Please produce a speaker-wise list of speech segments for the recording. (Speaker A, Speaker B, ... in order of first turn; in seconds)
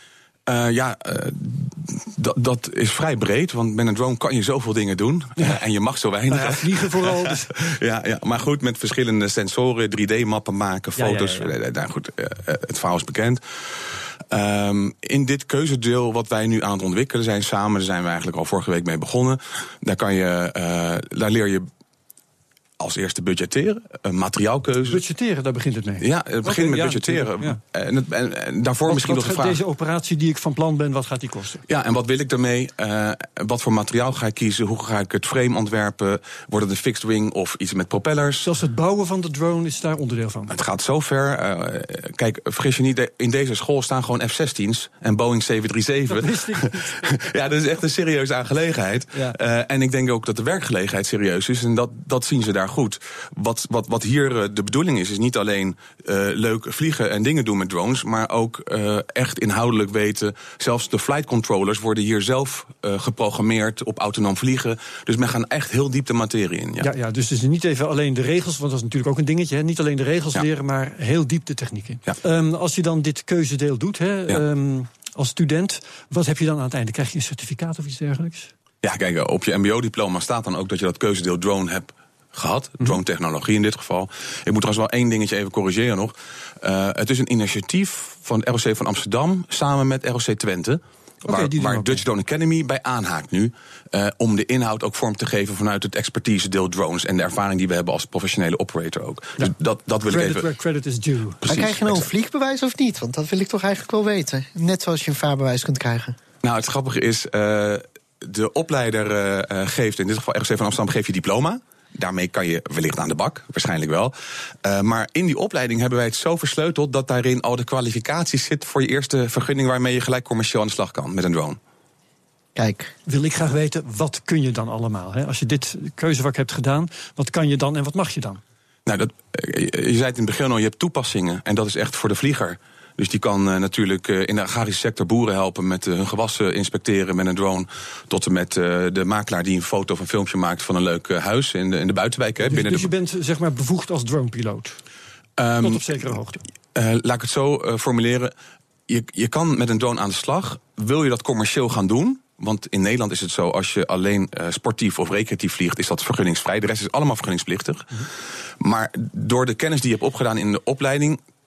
Speaker A: 0.5-21.7, 22.8-25.0, 26.0-29.6, 31.7-38.5, 40.5-66.9, 78.8-100.5, 101.5-102.1, 106.4-121.6, 128.8-142.9, 145.4-146.1, 146.7-148.3, 148.9-158.0, 158.6-161.2
Speaker B: 6.3-7.5, 10.9-11.5, 24.9-27.6, 28.9-31.6, 38.4-40.5, 46.1-47.0, 49.1-49.4, 66.8-78.5, 91.2-92.0, 100.0-101.4, 123.0-128.4, 142.4-144.8, 145.6-146.4
Speaker C: 101.5-106.1, 122.5-122.9